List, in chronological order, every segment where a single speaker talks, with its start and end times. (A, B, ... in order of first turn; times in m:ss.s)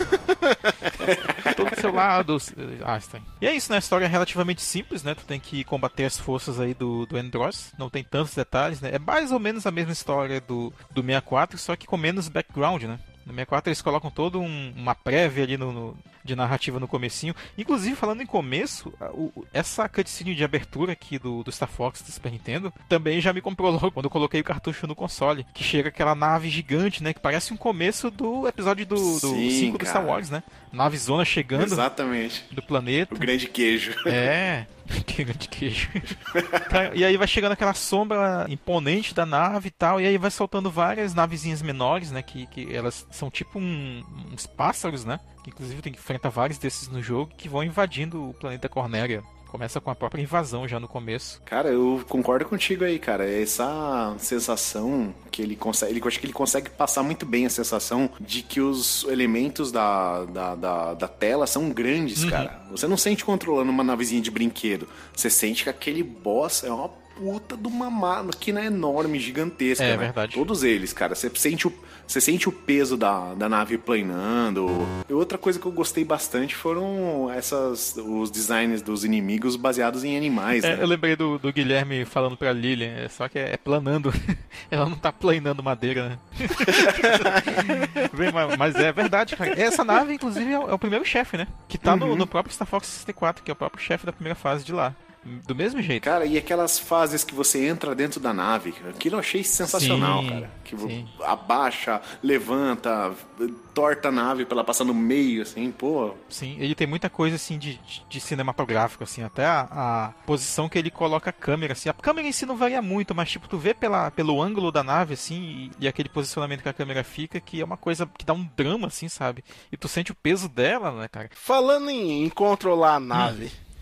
0:00.2-0:00.9 A
0:01.0-0:01.8 B
0:01.5-0:31.8 C
0:29.0-0:30.3 B
0:31.5-0:32.5 B
0:32.5-0:33.3 C
0:33.1-0:34.3 B
0:34.0-0:51.4 C
0:36.3-0:36.8 B
0:51.4-1:20.9 B
1:02.2-1:02.5 C
1:09.8-1:10.5 C
1:20.6-1:36.0 C
1:31.8-1:32.3 B
1:36.0-1:46.2 B
1:39.6-1:41.1 C
1:46.3-2:01.3 C
2:01.4-2:03.5 A